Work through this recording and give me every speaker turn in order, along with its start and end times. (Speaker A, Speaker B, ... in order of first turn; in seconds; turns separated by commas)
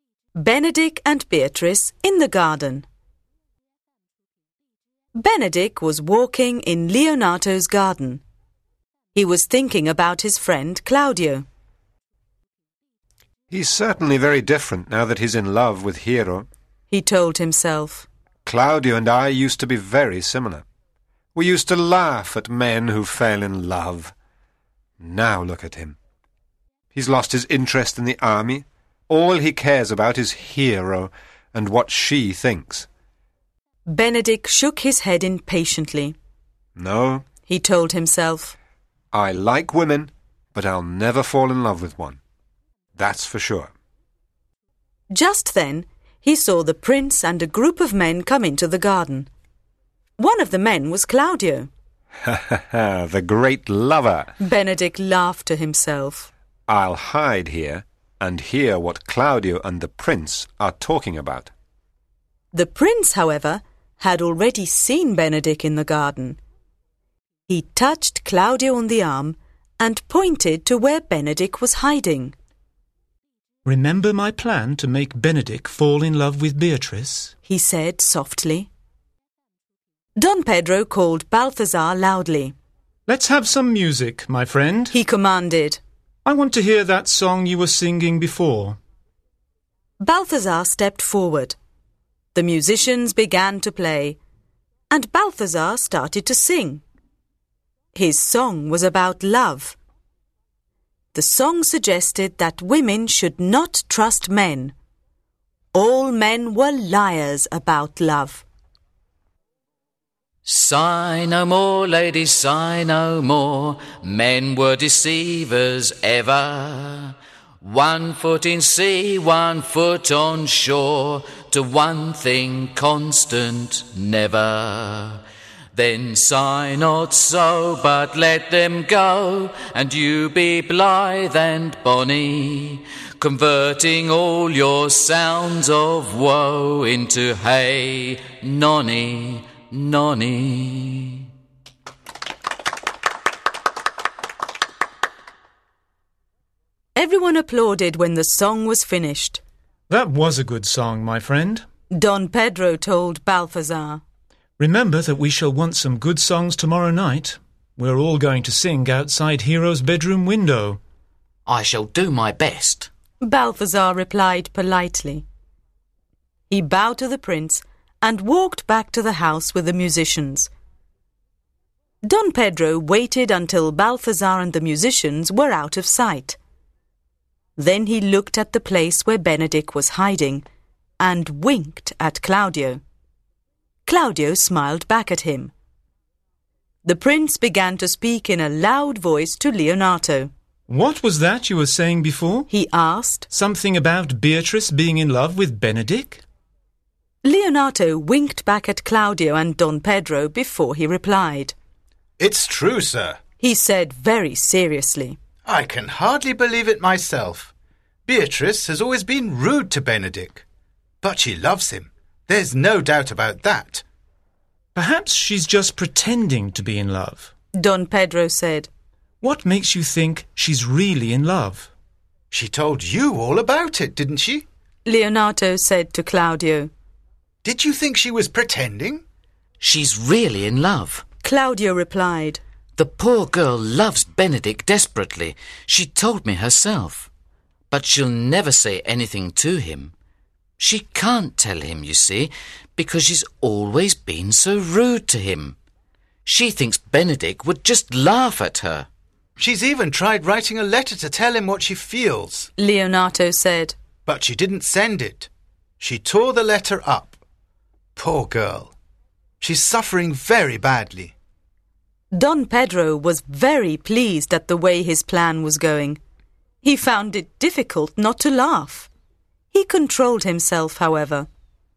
Speaker A: 0.3-2.9, Speaker A: 5.1-8.2, Speaker A: 9.1-11.4, Speaker B: 13.5-16.5, Speaker A: 16.9-18.1, Speaker B: 18.4-20.6, Speaker B: 21.3-24.1, Speaker B: 25.0-26.0, Speaker B: 26.9-32.9, Speaker A: 33.9-36.1, Speaker B: 36.8-37.2, Speaker A: 37.5-38.5, Speaker B: 39.1-42.2, Speaker B: 42.9-43.7, Speaker A: 45.1-49.3, Speaker A: 50.2-51.7, Speaker B: 52.2-54.3, Speaker A: 54.4-56.3, Speaker B: 56.7-61.5, Speaker A: 62.5-66.4, Speaker A: 67.5-72.3, Speaker C: 73.6-77.3, Speaker A: 77.5-78.7, Speaker A: 80.2-82.5, Speaker C: 83.1-85.0, Speaker A: 84.9-85.8, Speaker C: 86.2-88.8, Speaker A: 90.0-91.5, Speaker A: 92.3-94.2, Speaker A: 94.9-96.8, Speaker A: 97.9-99.8, Speaker A: 101.1-104.7, Speaker A: 105.7-108.4, Speaker D: 110.5-125.2, Speaker D: 125.7-141.3, Speaker A: 146.9-149.4, Speaker C: 149.9-151.7, Speaker A: 151.9-154.0, Speaker C: 154.6-160.8, Speaker D: 161.4-162.9, Speaker A: 163.2-165.2, Speaker A: 166.5-170.5, Speaker A: 172.0-176.4, Speaker A: 177.6-180.4, Speaker A: 181.0-182.8, Speaker A: 183.8-185.5, Speaker A: 186.8-190.3, Speaker C: 190.7-192.5, Speaker A: 192.5-193.3, Speaker C: 193.3-196.2, Speaker A: 197.2-201.5, Speaker E: 202.2-203.2, Speaker A: 203.4-205.2, Speaker E: 205.4-207.5, Speaker E: 208.1-210.4, Speaker E: 211.0-213.8, Speaker C: 214.7-217.3, Speaker A: 217.5-218.7, Speaker C: 219.2-221.7, Speaker E: 222.3-224.4, Speaker A: 224.8-226.7, Speaker E: 227.4-229.0, Speaker D: 229.6-231.0, Speaker A: 231.2-232.4, Speaker D: 232.8-237.1, Speaker D: 237.7-239.9, Speaker D: 240.6-245.6, Speaker D: 246.2-248.9, Speaker E: 249.4-252.5, Speaker A: 252.6-253.8, Speaker E: 254.1-255.3, Speaker E: 255.8-257.2, Speaker E: 257.9-258.7, Speaker E: 259.4-261.1, Speaker A: 262.1-266.0, Speaker A: 266.6-268.9, Speaker A: 269.5-271.3